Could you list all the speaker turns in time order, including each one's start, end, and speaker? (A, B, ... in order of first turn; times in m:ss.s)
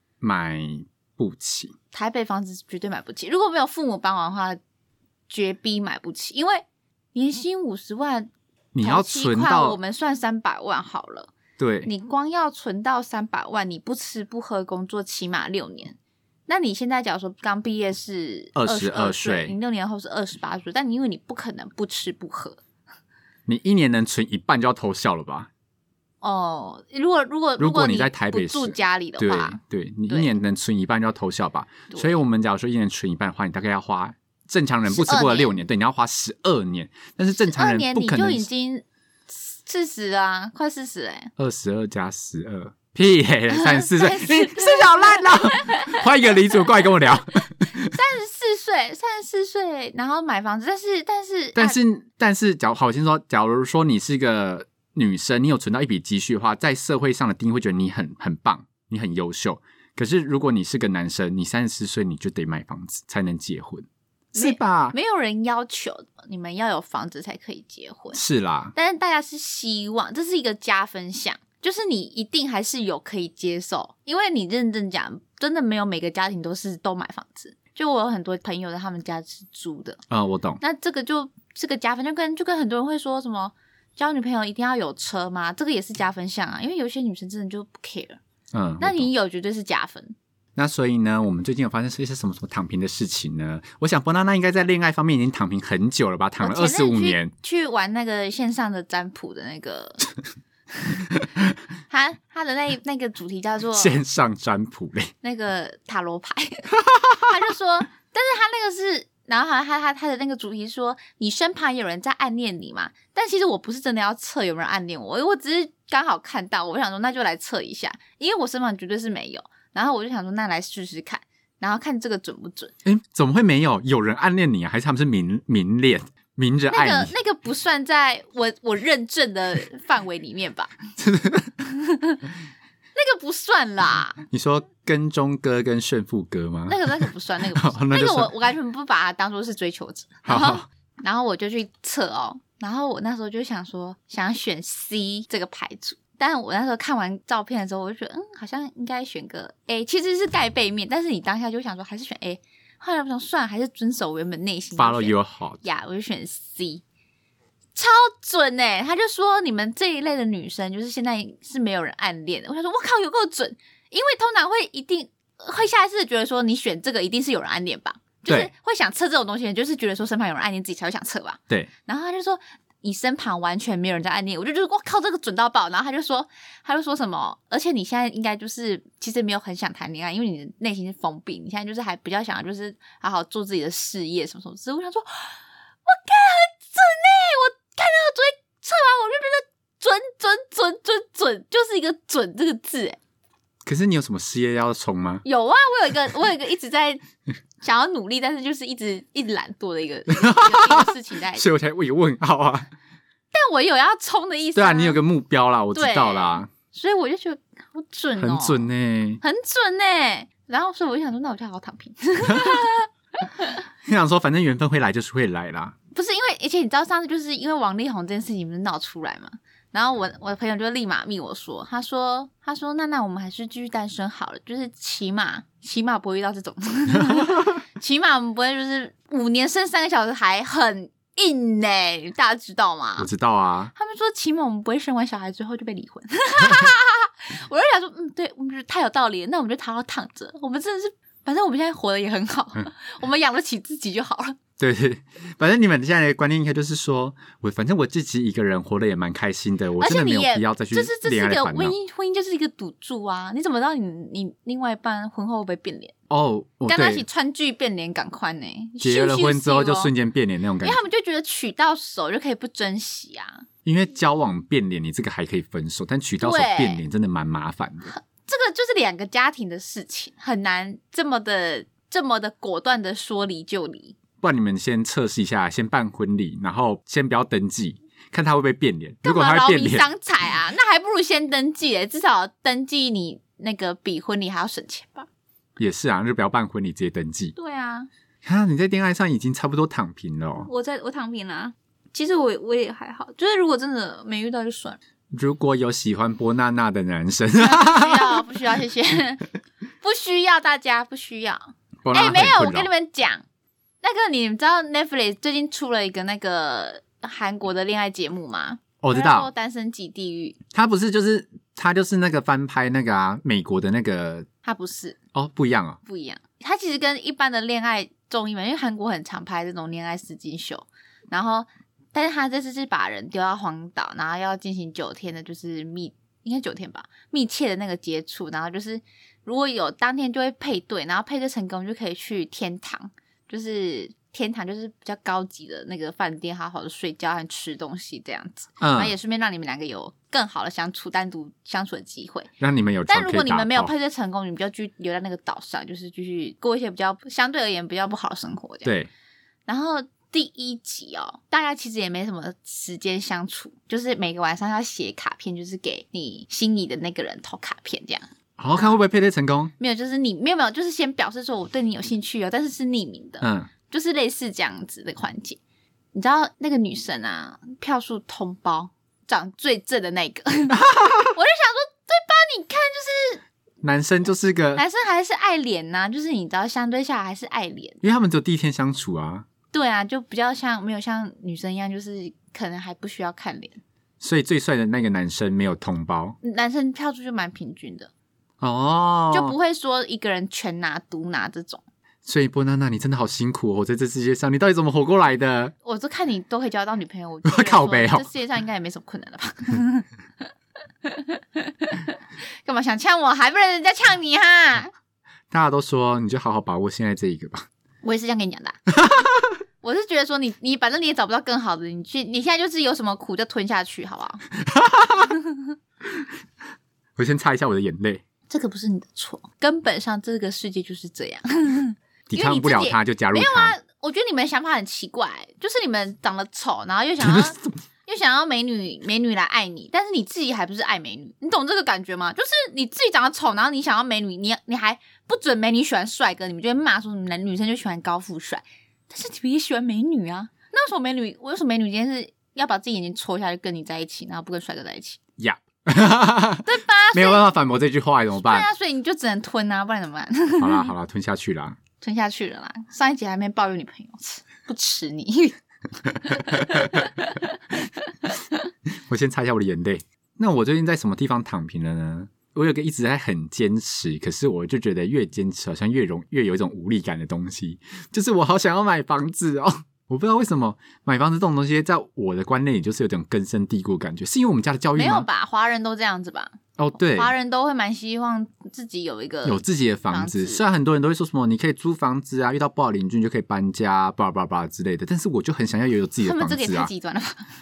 0:00.2-0:01.7 A
0:01.9-0:04.6 B
0:05.3-0:08.3 B
0:08.8-0:09.8 A
0:08.8-0:11.3 B
0:11.6-0:11.9 A
0:11.8-0:22.6 B
0:18.6-0:19.6 A
0:23.5-0:25.5 A
0:26.2-0:30.4 B
0:27.6-0:38.5 A
0:31.9-0:32.2 B
0:34.9-0:35.6 B
0:37.5-0:41.3 B
0:41.4-0:47.9 A
0:43.5-0:51.8 B
0:51.6-1:05.0 A
1:04.4-1:08.2 B
1:08.1-1:08.7 A
1:08.7-1:20.0 B
1:20.1-1:20.6 A
1:20.6-1:28.2 B
1:28.5-1:29.1 A
1:28.8-1:30.2 B
1:30.6-1:37.3 A
1:36.4-1:40.1 B
1:41.9-1:44.0 B
1:43.7-1:45.1 A
1:45.2-2:02.7 B
1:46.8-1:47.3 A
2:02.8-2:07.1 A
2:06.7-2:10.7 B
2:11.0-2:11.6 A
2:11.7-2:12.2 B
2:13.0-2:14.2 B
2:14.3-2:18.3 A
2:16.7-2:36.8 B
2:20.3-2:20.7 A
2:34.8-2:35.6 A
2:37.8-3:13.0 B
3:13.6-3:15.2 A
3:15.2-3:17.0 B
3:17.6-3:21.4 B
3:20.2-3:22.7 A
3:23.3-3:25.0 B
3:24.6-3:26.5 A
3:25.7-3:28.7 B
3:28.2-3:29.2 A
3:29.2-3:33.6 B
3:32.3-3:32.6 A
3:33.8-3:35.8 A
3:35.9-3:53.1 B
3:47.1-3:47.4 A
3:53.0-3:53.7 A
3:53.8-4:04.4 B
4:04.6-4:11.8 A
4:09.8-4:15.9 B
4:16.1-4:17.0 A
4:16.7-4:19.9 B
4:18.8-4:20.8 A
4:20.6-4:23.5 B
4:23.6-4:27.9 A
4:26.2-4:26.8 B
4:27.8-4:34.0 B
4:34.2-4:39.9 A
4:39.0-4:45.1 B
4:45.6-4:47.4 A
4:47.4-4:47.9 B
4:48.2-4:50.5 A
4:50.4-4:54.8 B
4:55.1-4:58.2 A
4:57.4-4:59.3 B
4:59.8-5:03.2 B
5:01.8-5:02.7 A
5:03.8-5:10.4 B
5:08.8-5:09.3 A
5:10.5-5:14.3 A
5:14.4-5:15.0 B
5:15.1-5:15.8 A
5:15.9-5:42.3 B
5:38.6-5:38.9 A
5:42.4-5:43.7 A
5:42.9-5:48.8 B
5:48.6-5:48.9 A
5:49.5-5:58.8 B
5:58.4-5:59.5 A
5:59.6-6:05.4 B
6:03.2-6:03.5 A
6:05.9-6:13.2 B
6:10.5-6:11.2 A
6:13.6-6:14.6 A
6:14.6-6:17.8 B
6:17.8-6:19.3 A
6:19.5-6:23.6 B
6:24.0-6:26.2 A
6:26.2-6:27.9 B
6:28.4-6:29.4 A
6:29.1-6:31.6 B
6:32.0-6:35.5 A
6:35.6-6:40.3 B
6:37.2-6:38.1 A
6:40.8-6:44.7 B
6:45.3-6:47.5 A
6:47.8-6:48.6 B
6:48.8-6:49.4 A
6:49.6-6:54.2 B
6:54.4-6:55.2 A
6:55.1-6:55.5 B
6:57.0-6:58.0 A
6:58.3-7:25.0 B
7:02.1-7:03.6 A
7:07.0-7:07.5 A
7:25.2-7:28.5 A
7:26.4-7:27.3 B
7:28.2-7:30.7 B
7:30.4-7:31.6 A
7:31.8-7:38.4 B
7:38.9-7:55.1 A
7:54.8-8:00.4 B
7:56.6-7:57.1 A
7:59.2-8:06.7 A
8:06.0-8:07.3 B